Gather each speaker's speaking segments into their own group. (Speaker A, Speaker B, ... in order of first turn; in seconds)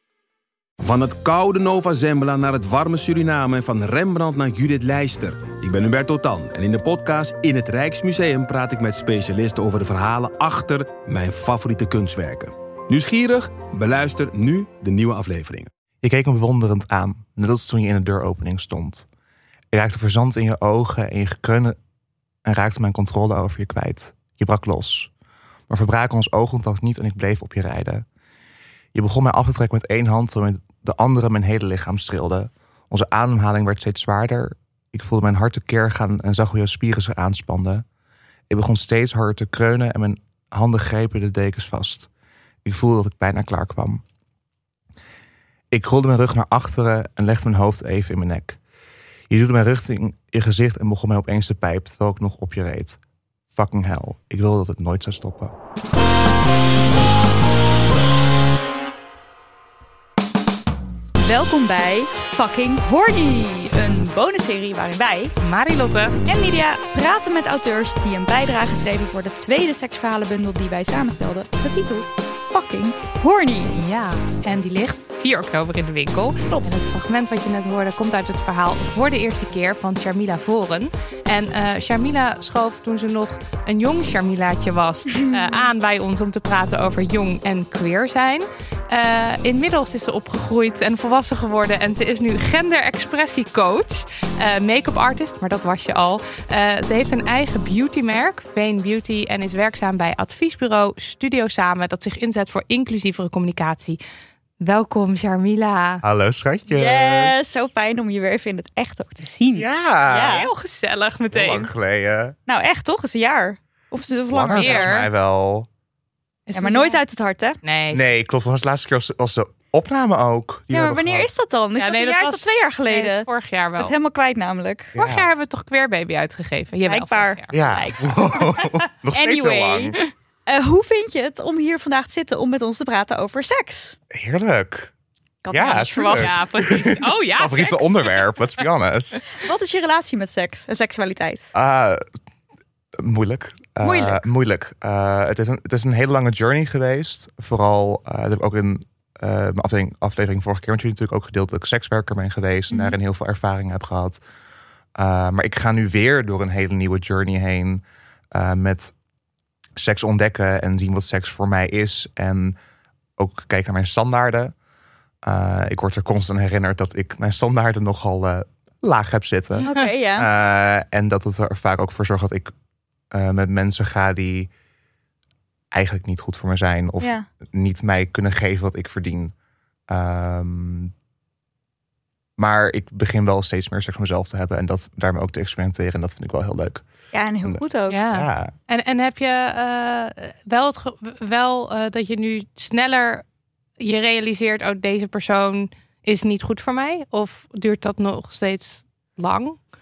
Speaker A: 0.8-15.7
Speaker B: 16.0-19.1, 19.7-21.8, 22.4-25.1, 25.7-28.1, 28.9-37.8, 38.5-42.1, 42.6-44.0, 45.7-48.6, 49.3-53.0, 53.5-55.5, 106.0-107.7, 109.5-110.4, 111.3-112.4, 114.3-115.7, 117.9-121.4, 125.0-125.3, 127.5-130.0, 134.1-134.9, 135.5-139.2, 141.5-142.0, 143.0-154.2, 155.0-158.9, 159.8-162.6, 163.2-164.5, 165.2-172.5, 173.1-174.5, 175.7-179.3, 179.9-180.9, 182.4-186.8, 187.4-188.5
Speaker C: 61.2-65.3, 66.2-73.8, 76.5-76.8, 85.2-85.7, 106.7-110.5, 112.5-115.1, 116.5-117.6, 120.7-123.3, 123.8-125.0, 126.8-134.0, 135.4-136.4, 139.3-141.5, 143.8-144.2, 152.7-153.0, 169.6-170.3, 177.0-177.3, 187.1-188.0
Speaker D: 65.4-66.2, 73.8-104.0, 104.6-106.0, 110.1-111.7, 114.5-115.1, 116.5-117.0, 117.6-118.0, 121.8-123.9, 124.9-127.5, 136.2-138.0, 187.9-193.2, 193.8-199.6